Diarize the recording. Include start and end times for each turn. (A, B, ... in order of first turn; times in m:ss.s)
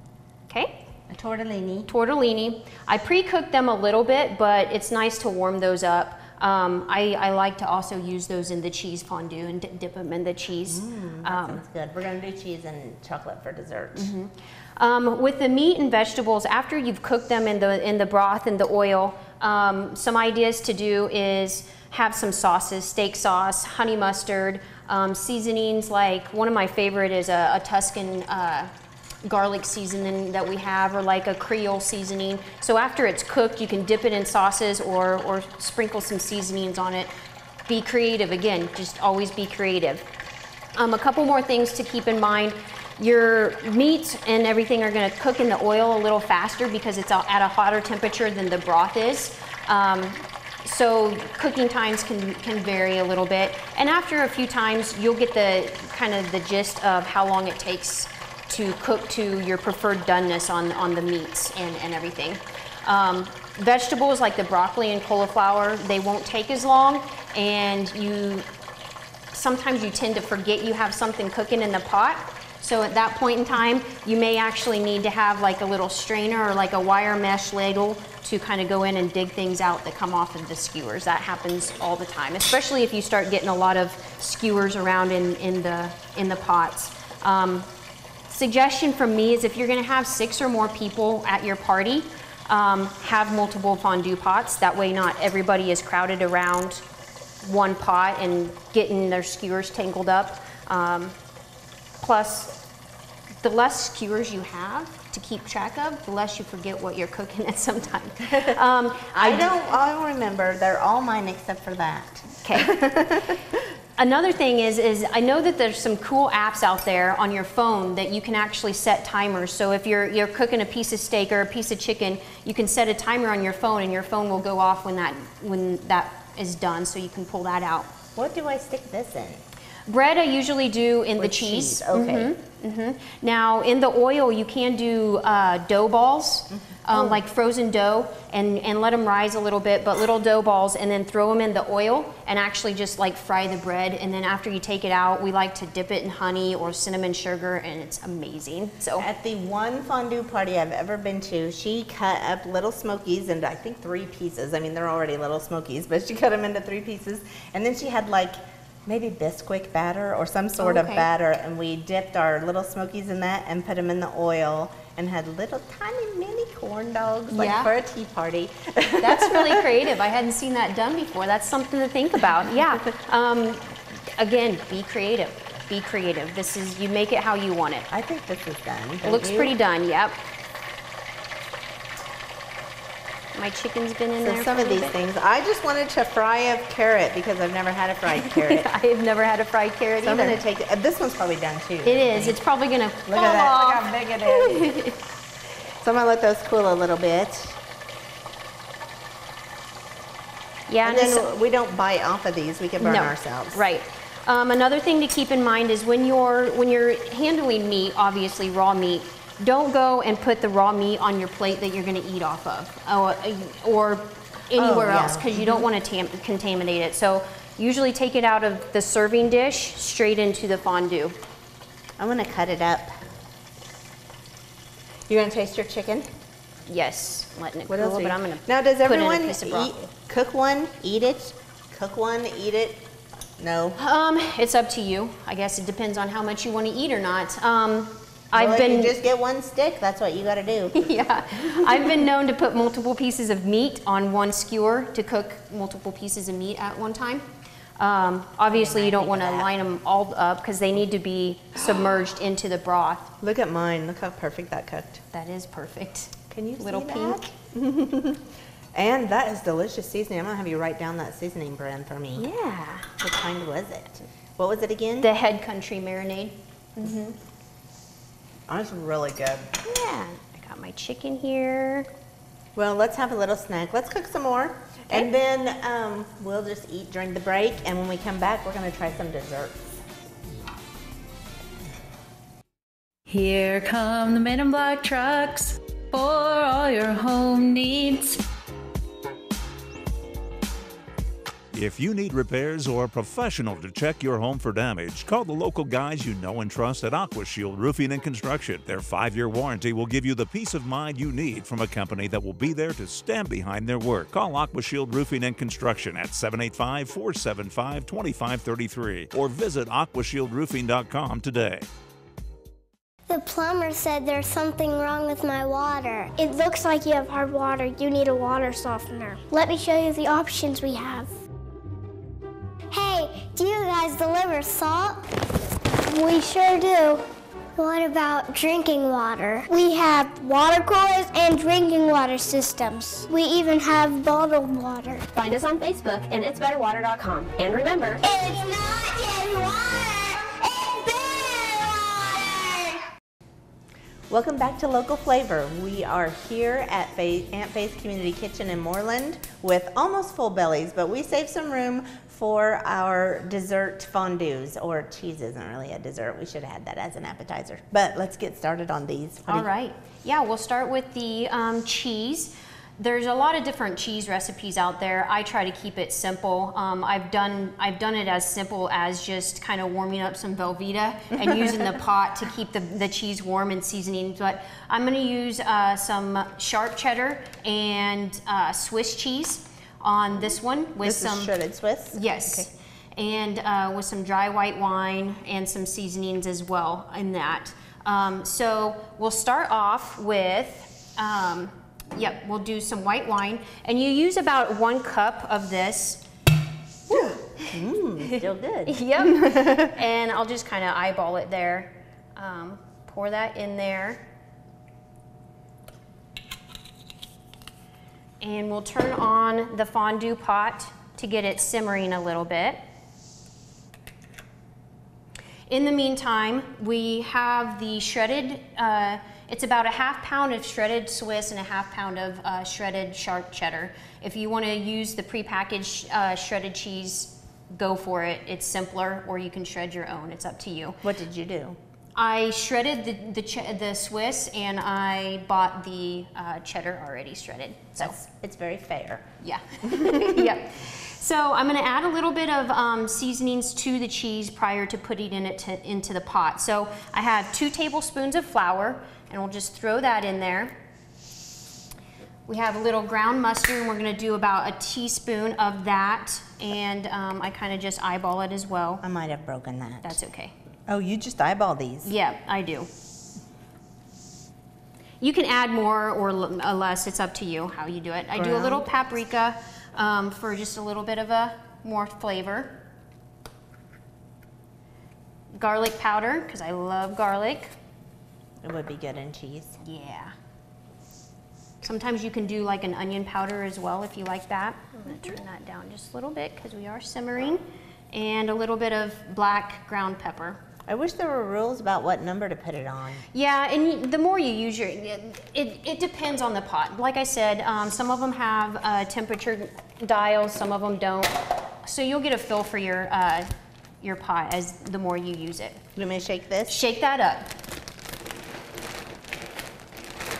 0:00.5-0:00.8 A
0:01.1-0:01.9 B
0:01.9-0:11.6 A
0:10.7-0:14.1 B
0:14.0-0:28.7 A
0:29.2-0:37.1 A
0:37.7-0:40.1 A
0:40.8-1:08.5 A
1:09.3-1:27.7 A
1:28.3-1:36.8 A
1:37.4-1:41.2 A
1:42.0-1:42.6 A
1:43.4-1:49.6 A
1:49.1-1:53.6 B
1:52.4-1:52.8 A
1:54.0-2:07.9 A
2:08.2-2:09.4 B
2:09.9-2:29.1 A
2:11.2-2:12.3 B
2:16.5-2:17.2 B
2:29.0-2:49.7 B
2:40.6-2:41.1 A
2:47.3-2:47.7 A
2:49.0-2:57.9 A
2:57.9-2:59.6 B
2:59.0-3:00.2 A
3:03.3-3:05.0 A
3:04.2-3:08.7 B
3:08.1-3:10.4 A
3:10.0-3:12.4 B
3:11.8-3:15.0 A
3:13.1-3:14.9 B
3:15.8-3:17.6 B
3:20.7-3:21.3 A
3:20.8-3:23.6 B
3:22.8-3:41.2 A
3:34.6-3:35.7 B
3:42.0-3:43.0 B
3:45.1-3:46.1 B
3:46.7-3:49.9 A
3:47.7-3:53.8 B
3:53.8-3:59.0 A
3:58.3-4:02.1 B
4:00.7-4:07.2 A
4:07.8-4:13.2 A
4:08.5-4:09.5 B
4:13.2-4:15.0 B
4:15.1-4:17.3 A
4:16.3-4:22.3 B
4:22.2-4:22.9 A
4:23.0-4:25.1 B
4:25.0-4:27.2 A
4:28.5-4:29.5 B
4:29.6-4:31.9 A
4:32.6-4:39.8 B
4:43.1-4:48.2 C
4:51.5-5:11.7 D
5:13.1-5:21.1 E
5:22.7-5:25.1 E
5:25.8-5:27.0 E
5:27.6-5:35.0 E
5:35.1-5:38.0 F
5:38.0-5:42.8 E
5:44.1-5:59.5 B
5:59.3-6:21.3 A
6:20.8-6:22.5 B
6:21.9-6:36.0 A
6:36.9-6:39.7 B
6:36.9-6:37.5 A
6:38.7-6:44.0 A
6:48.2-6:52.6 A
6:55.5-7:10.8 A
7:10.8-7:11.6 B
7:12.0-7:18.0 A
7:17.8-7:19.1 B
7:19.2-7:30.6 A
7:19.6-7:20.4 B
7:32.3-7:38.8 A
7:38.8-7:40.0 B
7:39.8-7:40.3 A
7:40.7-7:41.9 B
7:41.8-7:42.7 A
7:45.0-7:52.6 A
7:48.2-7:48.7 B
7:55.3-7:57.5 A
7:58.4-7:59.6 B
7:59.6-8:00.1 A
8:01.6-8:10.4 A
8:10.7-8:13.0 B
8:13.1-8:23.3 A
8:23.8-8:25.6 A
8:25.8-8:26.6 B
8:26.5-8:27.3 A